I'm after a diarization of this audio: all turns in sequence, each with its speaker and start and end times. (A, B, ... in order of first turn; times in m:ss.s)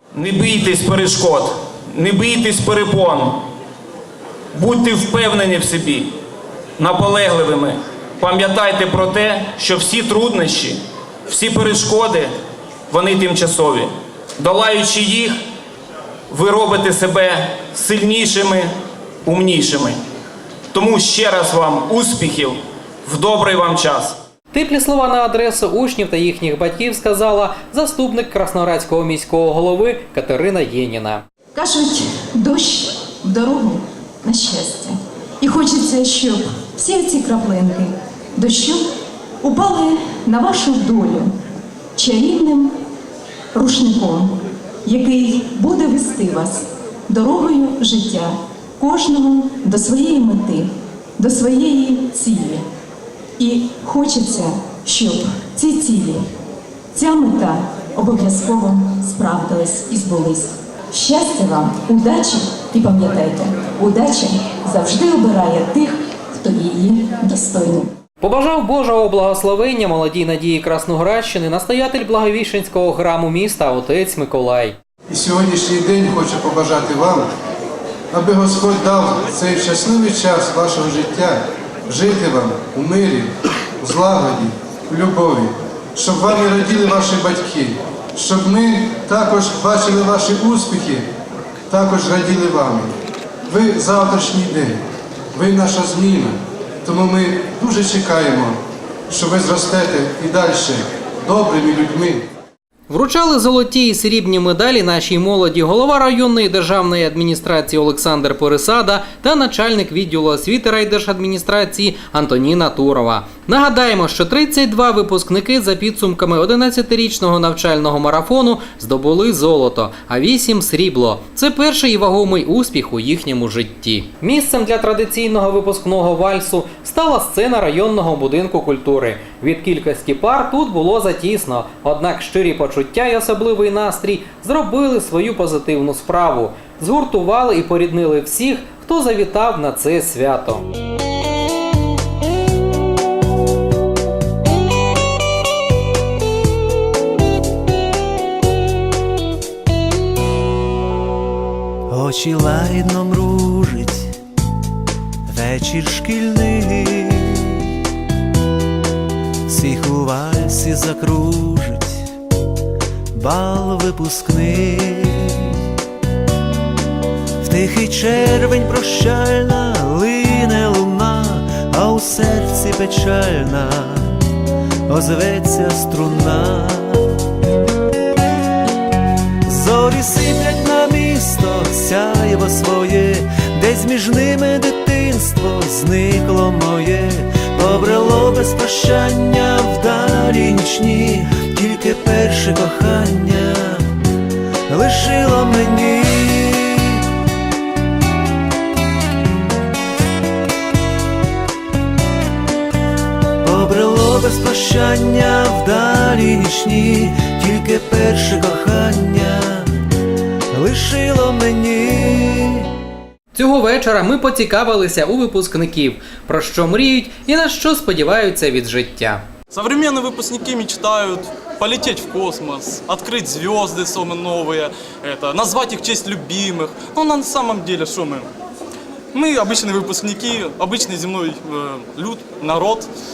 0:00.1-0:03.4 A
0:04.5-0:06.1 A
0:06.8-0:12.3 A
0:12.9-0:15.4 A
0:16.3-0:18.7 A
0:19.2-0:20.0 A
0:20.7-0:24.2 A
0:24.5-0:31.2 B
0:31.6-0:38.8 C
0:39.4-0:41.3 C
0:42.0-0:42.7 C
0:43.5-0:52.6 C
0:53.4-0:56.2 C
0:56.9-1:07.9 C
1:08.2-1:14.7 B
1:15.1-1:17.3 D
1:18.1-1:21.4 D
1:21.9-1:23.3 D
1:23.8-1:31.0 D
1:31.7-1:32.9 D
1:33.5-1:34.8 D
1:35.4-1:36.3 D
1:36.9-1:38.6 D
1:39.1-1:42.2 D
1:42.9-2:20.6 B
2:31.9-2:34.2 E
2:35.3-2:37.6 E
2:39.5-2:42.1 E
2:43.1-2:45.6 E
2:47.4-2:54.2 E
2:54.9-2:57.2 E
2:59.4-3:13.9 E
3:14.7-3:17.0 E
3:23.4-3:29.7 E
3:30.5-3:32.7 E
3:33.3-3:39.2 B
3:39.5-3:48.3 F
3:49.1-3:52.9 F